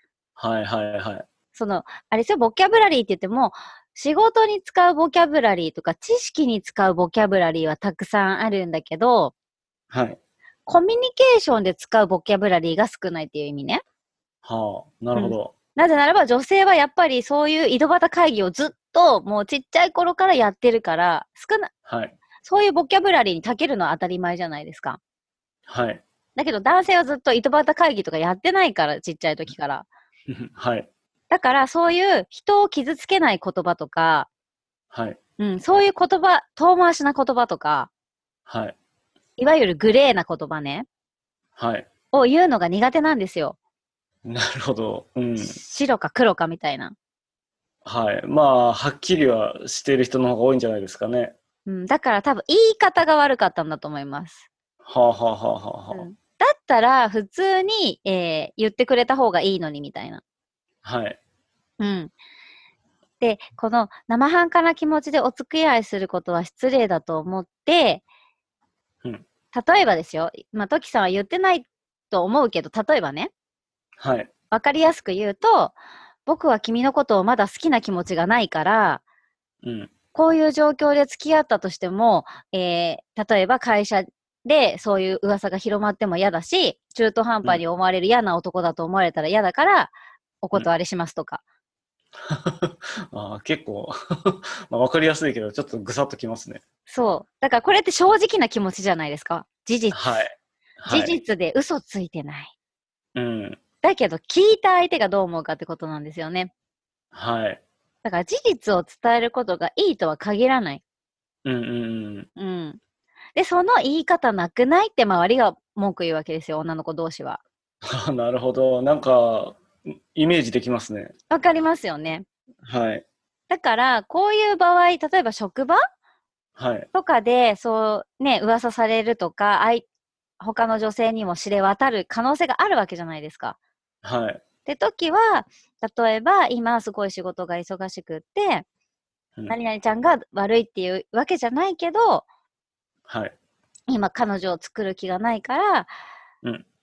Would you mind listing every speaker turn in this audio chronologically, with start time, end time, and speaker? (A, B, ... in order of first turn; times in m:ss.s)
0:00.4-0:01.2 A
0:01.5-0:09.3 B
0:09.9-0:10.2 A
0:10.7-0:13.8 B
0:14.4-0:15.5 A
0:15.1-0:21.7 B
0:21.8-0:22.2 A
0:22.4-0:25.0 B
0:25.7-0:26.0 A
0:26.4-0:29.9 B
0:30.3-0:30.9 A
0:31.3-0:34.3 B
0:34.9-0:35.2 A
0:35.4-0:37.9 B
0:38.5-0:38.8 A
0:39.4-0:40.8 B
0:41.6-0:41.9 A
0:42.1-0:43.6 B
0:44.2-0:45.6 A
0:45.4-0:46.9 B
0:47.8-0:51.3 A
0:51.6-0:54.4 B
0:54.8-0:56.0 A
0:55.9-1:00.2 B
1:00.8-1:01.2 A
1:01.8-1:02.1 B
1:03.2-1:08.0 B
1:09.5-1:13.3 B
1:14.0-1:14.3 A
1:14.5-1:19.0 B
1:19.6-1:19.9 A
1:20.1-1:31.4 B
1:32.2-1:36.6 A
1:36.9-1:40.2 B
1:39.9-1:41.1 A
1:40.9-1:42.5 B
1:43.1-1:43.6 A
1:43.8-1:46.5 B
1:47.1-1:47.6 A
1:48.0-1:50.8 B
1:51.4-1:52.3 A
1:52.4-1:52.8 B
1:53.4-1:57.4 B
1:57.8-2:01.1 A
2:01.3-2:02.2 B
2:02.6-2:03.0 A
2:03.5-2:05.8 B
2:06.6-2:06.9 A
2:06.9-2:09.8 B
2:10.4-2:13.6 B
2:14.0-2:14.4 A
2:14.6-2:18.6 B
2:19.5-2:22.2 B
2:23.1-2:23.3 A
2:23.9-2:25.9 B